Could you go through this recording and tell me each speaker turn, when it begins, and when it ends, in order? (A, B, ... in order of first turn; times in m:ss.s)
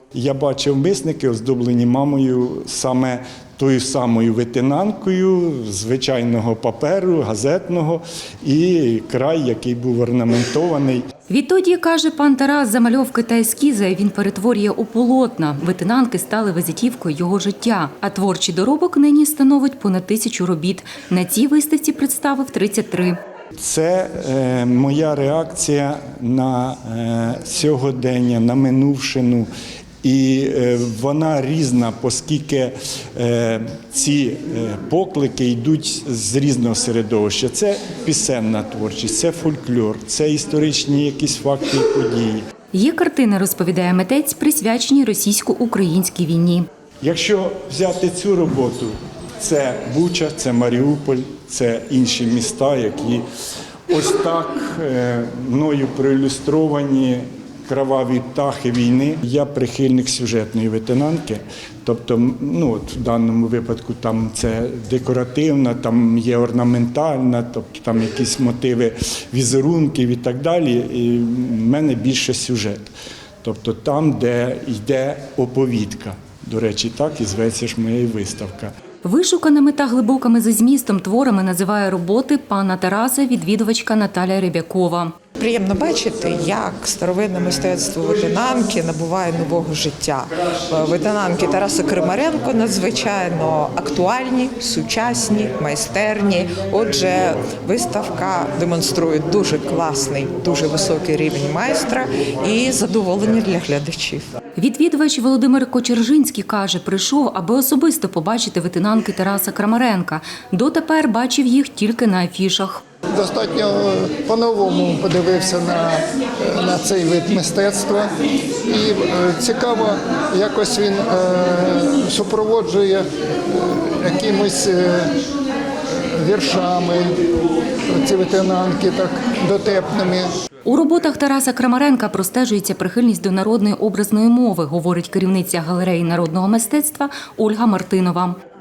0:00.1-0:11.0 A
0:11.3-0:23.2 B
0:23.6-0:29.5 A
0:30.0-0:42.4 A
0:42.7-0:46.7 B
0:47.0-0:53.2 A
0:53.9-1:12.9 A
1:13.4-1:18.7 A
1:19.0-1:25.1 B
1:25.4-1:44.3 C
1:44.6-1:52.8 B
1:53.2-1:58.1 D
1:58.7-2:05.1 D
2:06.0-2:07.1 D
2:07.9-2:10.3 D
2:10.7-2:18.4 B